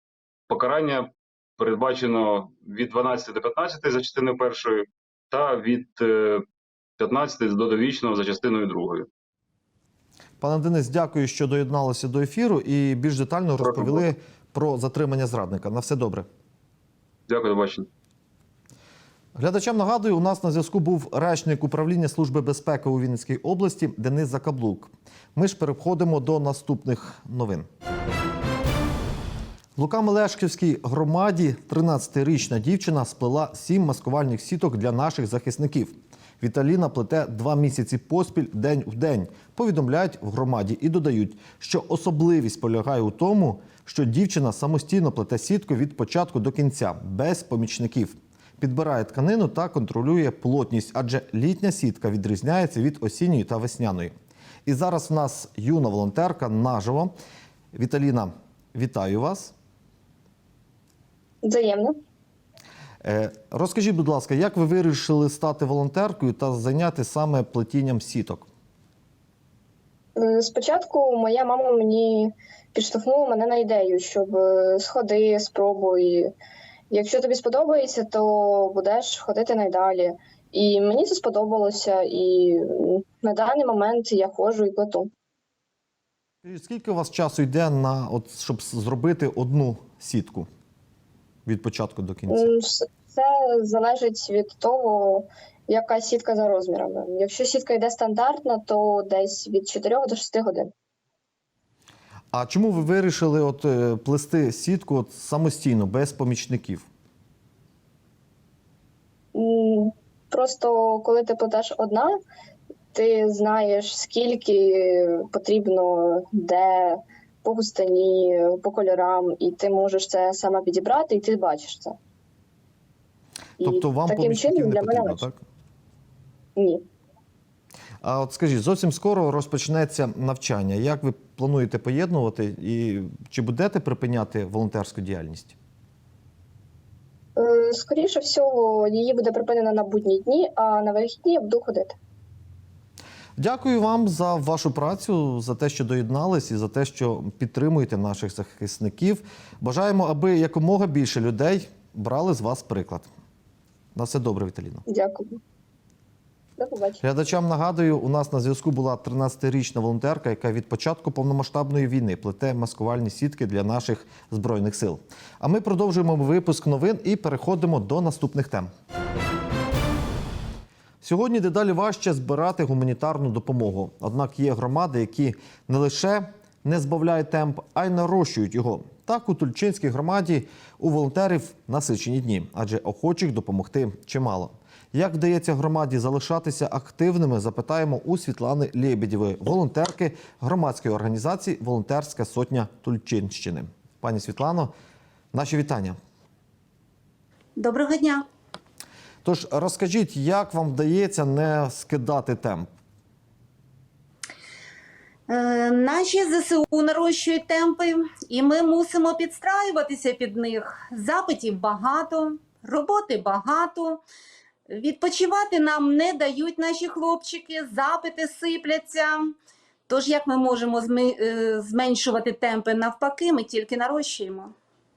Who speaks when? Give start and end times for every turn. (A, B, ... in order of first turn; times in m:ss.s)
0:00.5-0:06.4 A
0:07.0-0:09.1 A
0:10.4-0:16.3 B
0:13.6-0:14.0 A
0:17.3-0:17.9 A
0:19.3-0:27.7 B
0:29.8-0:54.1 B
0:54.6-0:57.1 B
0:57.7-0:59.5 B
1:01.4-1:02.0 C
1:03.0-1:08.5 B
1:10.2-1:16.3 C
1:16.9-1:25.1 C
1:26.4-1:30.5 B
1:31.4-1:32.5 B
1:32.3-1:40.7 C
1:42.3-1:46.8 B
1:49.3-1:52.2 C
1:52.9-2:02.0 C
2:03.6-2:05.4 B
2:03.6-2:05.3 C
2:06.6-2:06.8 C
2:08.0-2:15.6 B
2:17.4-2:22.0 C
2:23.4-2:33.1 B
2:33.9-2:34.8 B
2:34.9-2:35.4 C
2:36.6-2:37.0 C
2:37.0-2:48.7 B
2:51.0-3:14.7 B
3:15.3-3:16.0 B
3:17.6-3:18.2 D
3:19.2-3:22.7 B
3:25.3-3:34.0 D
3:34.7-3:39.3 D
3:39.9-3:44.5 D